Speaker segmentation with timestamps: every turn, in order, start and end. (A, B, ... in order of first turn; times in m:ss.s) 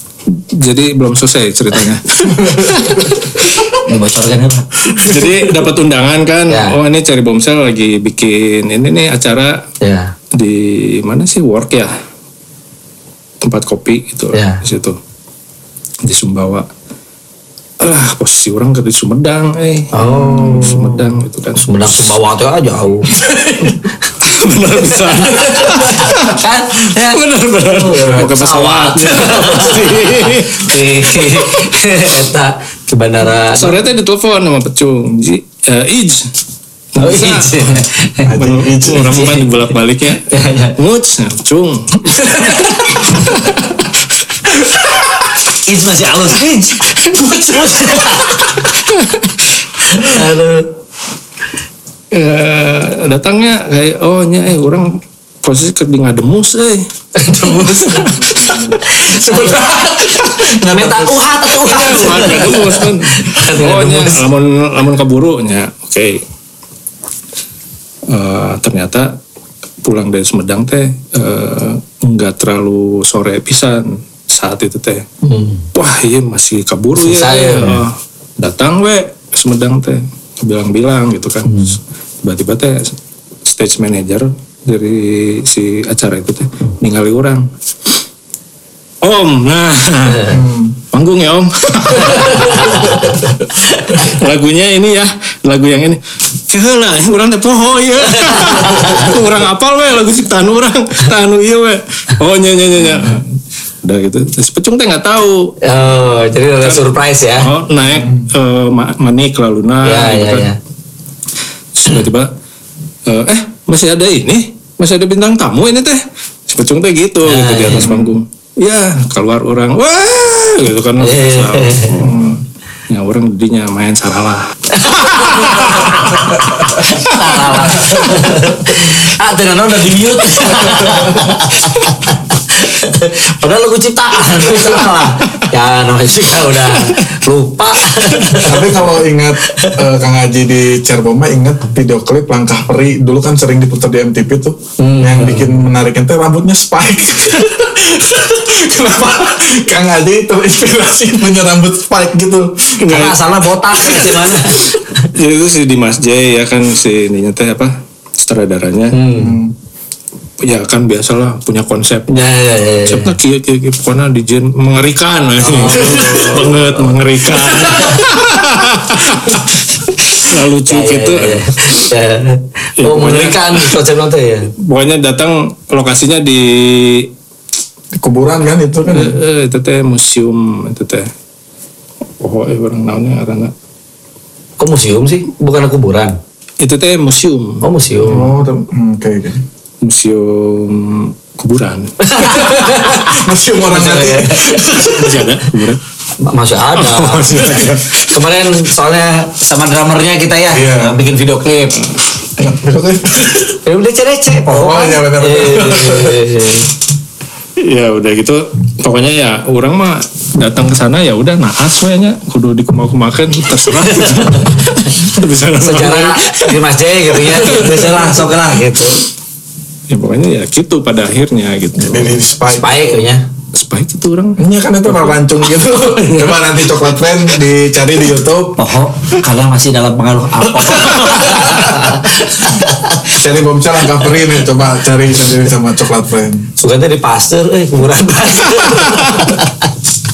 0:00.3-0:03.8 A
0:03.7-0:05.2 B
0:04.9-0:05.3 C
0:04.9-0:09.6 A
0:06.5-0:06.8 B
0:09.8-0:10.1 B
0:10.3-0:11.9 A
0:13.4-0:15.0 A
0:14.3-0:14.6 B
0:16.1-0:16.7 A
0:17.8-0:22.2 A
0:19.9-0:24.1 B
0:20.1-0:20.7 C
0:24.2-0:31.7 A
0:24.9-0:33.8 B
0:33.5-0:36.3 A
0:37.0-0:43.9 A
0:37.0-0:38.4 B
0:38.3-0:39.2 C
0:38.9-0:39.5 B
0:40.3-0:40.8 B
0:42.2-0:43.1 B
0:45.7-0:48.7 B
0:47.0-0:48.4 A
0:48.9-0:49.3 A
0:49.8-0:50.7 B
0:52.1-0:56.9 A
0:57.2-1:04.2 B
0:57.4-0:59.1 A
0:59.0-1:01.2 C
1:01.5-1:06.2 A
1:08.1-1:09.2 A
1:09.8-1:15.1 A
1:15.2-1:15.7 B
1:15.7-1:27.5 A
1:17.0-1:17.8 B
1:21.5-1:21.8 B
1:29.0-1:45.6 A
1:30.3-1:30.8 C
1:32.2-1:33.2 B
1:33.8-1:34.1 B
1:38.3-1:39.1 B
1:45.6-1:47.5 B
1:46.6-1:50.5 A
1:49.8-1:50.6 B
1:51.8-1:52.3 A
1:53.1-2:06.3 A
1:57.2-1:58.0 B
1:57.8-1:58.1 C
2:01.0-2:02.0 B
2:02.0-2:02.4 C
2:04.7-2:18.8 B
2:06.9-2:07.6 A
2:07.8-2:08.2 C
2:10.8-2:11.1 C
2:18.4-2:32.8 C
2:19.4-2:19.8 B
2:24.8-2:25.5 B
2:32.8-2:33.2 A
2:32.9-2:35.1 B
2:33.8-2:39.0 A
2:38.9-2:39.4 B
2:39.2-2:39.6 C
2:40.4-2:42.3 A
2:42.1-2:43.2 B
2:42.8-2:51.9 A
2:45.4-2:46.8 B
2:47.3-2:48.0 B
2:50.7-2:54.5 B
2:52.8-2:53.8 A
2:54.6-2:57.1 A
2:58.0-2:59.2 C
2:58.9-3:01.1 A
3:02.2-3:03.5 A
3:04.6-3:06.2 B
3:06.6-3:07.6 A
3:07.6-3:08.3 B
3:08.1-3:09.4 C
3:09.8-3:12.0 A
3:12.0-3:15.2 B
3:12.3-3:15.2 C
3:14.9-3:15.8 A
3:16.2-3:21.8 B
3:16.8-3:18.3 A
3:20.5-3:21.0 C
3:22.4-3:23.6 C
3:23.6-3:26.7 B
3:24.5-3:26.3 C
3:27.6-3:38.4 A
3:33.8-3:39.0 B
3:39.9-3:42.2 A
3:41.8-3:43.0 C
3:42.5-3:43.2 B
3:43.5-3:46.5 A
3:44.4-3:48.6 C
3:48.6-3:53.2 B
3:51.0-3:51.8 C
3:53.1-3:56.5 C
3:56.6-3:59.7 B
3:58.6-3:59.3 A